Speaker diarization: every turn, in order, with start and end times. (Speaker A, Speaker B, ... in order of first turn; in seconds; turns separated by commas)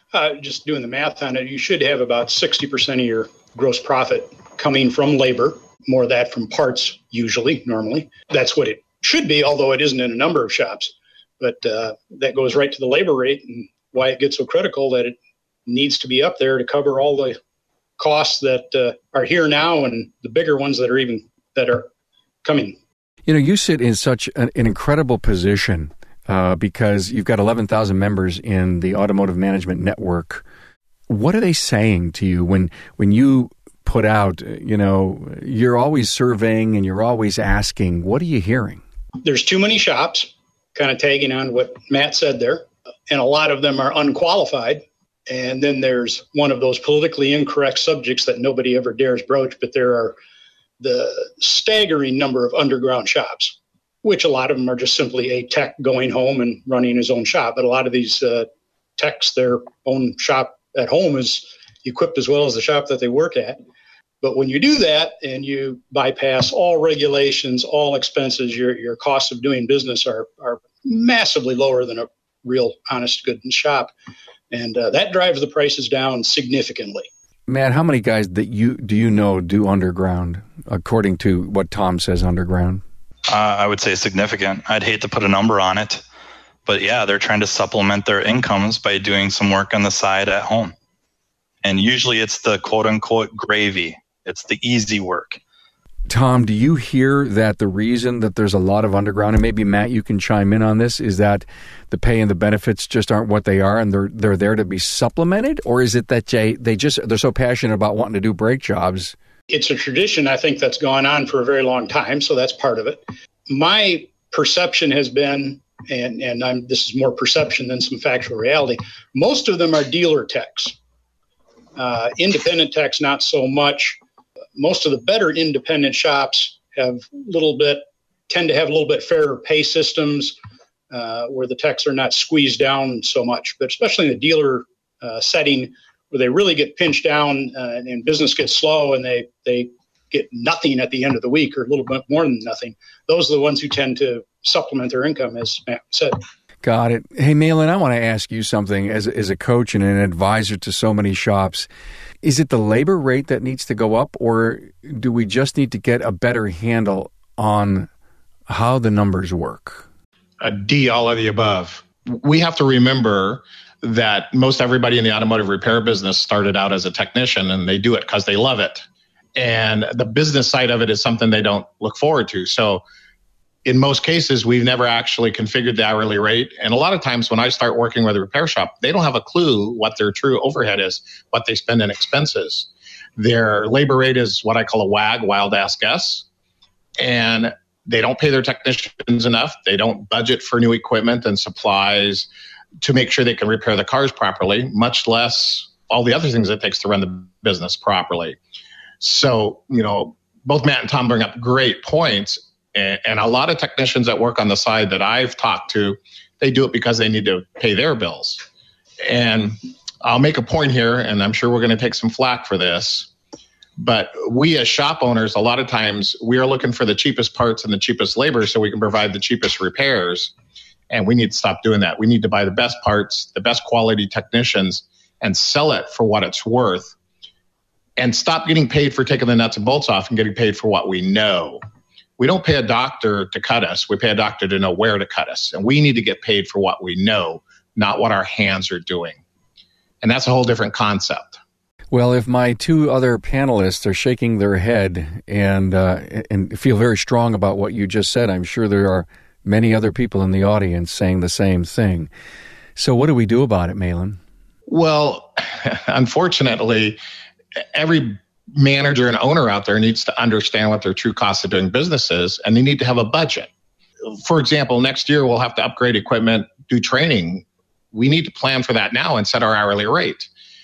Speaker A: 0.1-17.4, Speaker A: 18.0-21.9, Speaker A: 22.4-22.8, Speaker B: 23.2-30.4, Speaker B: 31.1-38.8, Speaker A: 39.2-50.1, Speaker A: 50.8-63.6, Speaker A: 64.2-73.9, Speaker A: 74.5-77.1, Speaker B: 77.5-82.8, Speaker C: 83.3-86.0, Speaker C: 86.7-90.7, Speaker C: 91.6-95.4, Speaker B: 96.1-109.1, Speaker A: 109.5-120.8, Speaker A: 121.8-124.0, Speaker A: 124.5-130.3, Speaker A: 130.9-146.2, Speaker B: 146.6-151.7, Speaker B: 152.2-157.9, Speaker B: 158.5-159.8, Speaker D: 160.4-168.8, Speaker D: 169.3-172.8, Speaker D: 173.6-186.2, Speaker D: 187.0-192.3, Speaker D: 192.8-198.4, Speaker D: 199.0-208.4, Speaker D: 209.0-213.1, Speaker D: 213.8-220.3, Speaker D: 220.9-226.9, Speaker D: 228.0-231.6, Speaker D: 232.2-239.2, Speaker D: 240.0-241.4, Speaker B: 241.9-252.1, Speaker B: 252.8-254.2, Speaker D: 254.7-257.0, Speaker D: 257.7-263.5, Speaker D: 264.1-270.3